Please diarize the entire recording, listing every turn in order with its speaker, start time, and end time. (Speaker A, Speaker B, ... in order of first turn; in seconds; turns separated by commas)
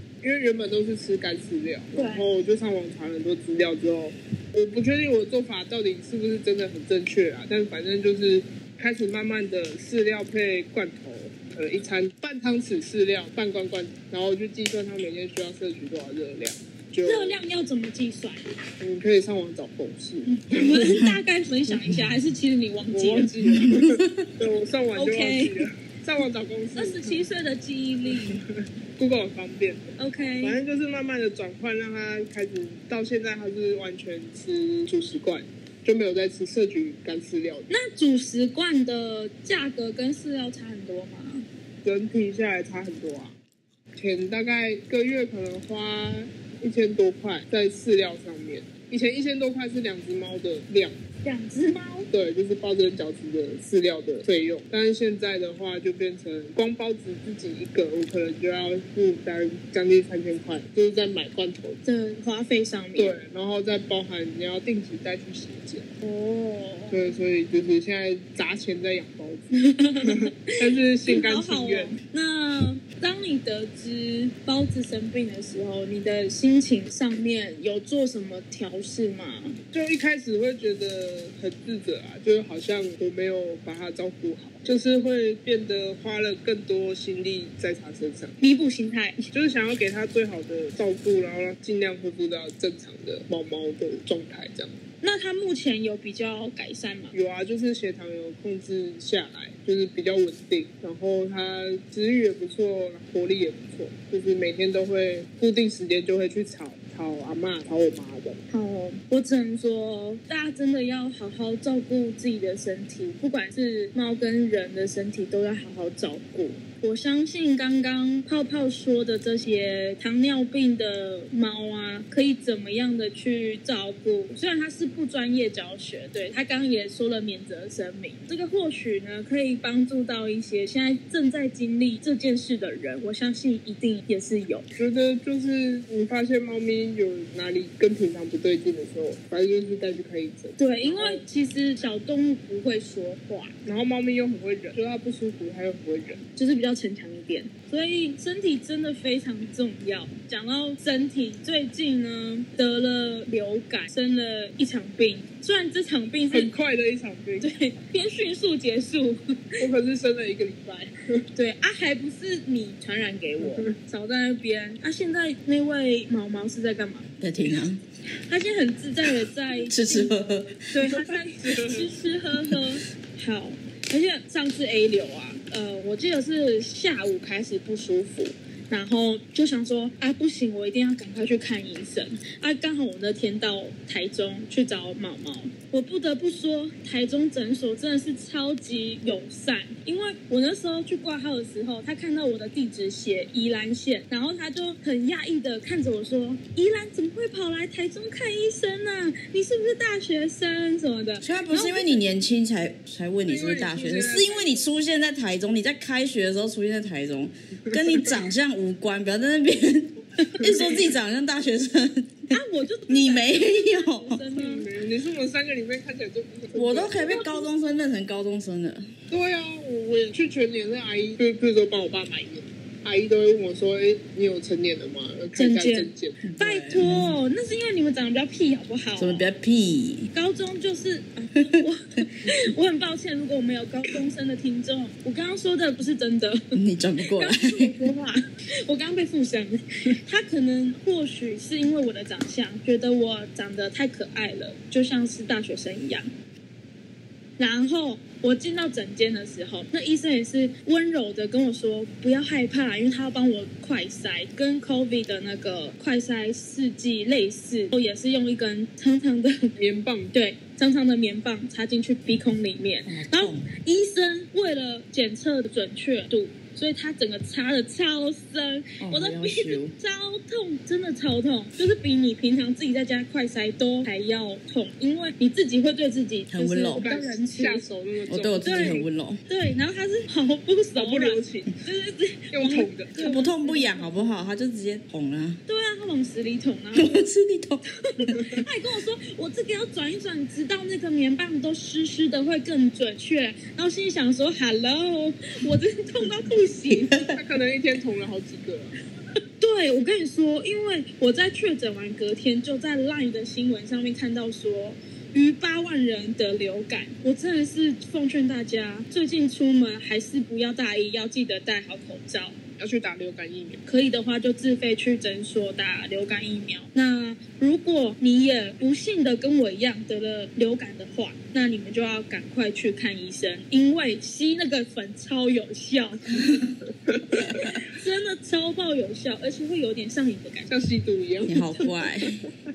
Speaker A: 0.2-17.4, Speaker B: 1.9-2.2, Speaker B: 17.0-18.4, Speaker A: 18.8-20.8, Speaker B: 20.2-23.3, Speaker C: 20.9-21.1, Speaker A: 22.9-27.2, Speaker C: 23.6-24.1, Speaker B: 24.9-25.6, Speaker B: 26.8-28.4, Speaker A: 28.1-37.7, Speaker B: 30.0-30.6, Speaker B: 37.7-41.5, Speaker A: 41.8-43.3, Speaker A: 44.0-51.0, Speaker B: 51.2-52.1, Speaker A: 52.1-61.8, Speaker B: 61.8-63.2, Speaker A: 63.0-65.9, Speaker B: 66.0-67.1, Speaker A: 66.9-69.5, Speaker B: 69.5-70.5, Speaker A: 70.0-72.0, Speaker B: 71.1-79.6, Speaker A: 79.7-88.4, Speaker B: 88.4-89.2, Speaker A: 89.3-94.8, Speaker B: 95.0-97.1, Speaker A: 97.1-108.4, Speaker B: 108.5-134.6, Speaker A: 134.8-141.2, Speaker B: 140.6-143.5, Speaker A: 143.6-146.2, Speaker B: 146.3-156.5, Speaker A: 156.3-157.6, Speaker B: 157.4-159.2, Speaker A: 159.6-161.2, Speaker B: 161.3-167.1, Speaker A: 163.4-163.7, Speaker C: 167.2-167.8, Speaker B: 168.2-202.0, Speaker C: 169.6-170.6, Speaker A: 171.3-171.9, Speaker C: 201.2-212.3, Speaker A: 203.2-204.7, Speaker B: 210.4-210.7, Speaker B: 212.3-214.7, Speaker C: 212.9-214.2, Speaker A: 214.3-217.2, Speaker C: 216.5-218.8, Speaker B: 217.0-217.5, Speaker A: 219.1-226.2, Speaker B: 225.3-229.2, Speaker C: 226.2-227.2, Speaker C: 229.0-230.1, Speaker B: 230.1-236.4, Speaker C: 236.5-237.8, Speaker B: 237.1-246.1, Speaker B: 247.4-259.5, Speaker A: 259.6-260.1, Speaker B: 260.1-277.7, Speaker C: 262.9-263.5, Speaker C: 268.8-269.7, Speaker C: 276.3-276.9, Speaker A: 276.8-278.7, Speaker C: 278.1-279.2, Speaker B: 278.4-284.0, Speaker A: 280.8-281.5, Speaker A: 282.3-282.9, Speaker C: 282.9-285.4, Speaker B: 285.5-287.1, Speaker C: 286.7-288.1, Speaker B: 287.8-297.1, Speaker A: 297.1-298.7, Speaker B: 299.4-312.3, Speaker A: 312.6-313.6, Speaker B: 313.7-326.2, Speaker A: 326.9-327.5, Speaker B: 327.3-330.5, Speaker A: 330.5-331.4, Speaker C: 331.2-332.2, Speaker B: 331.3-331.6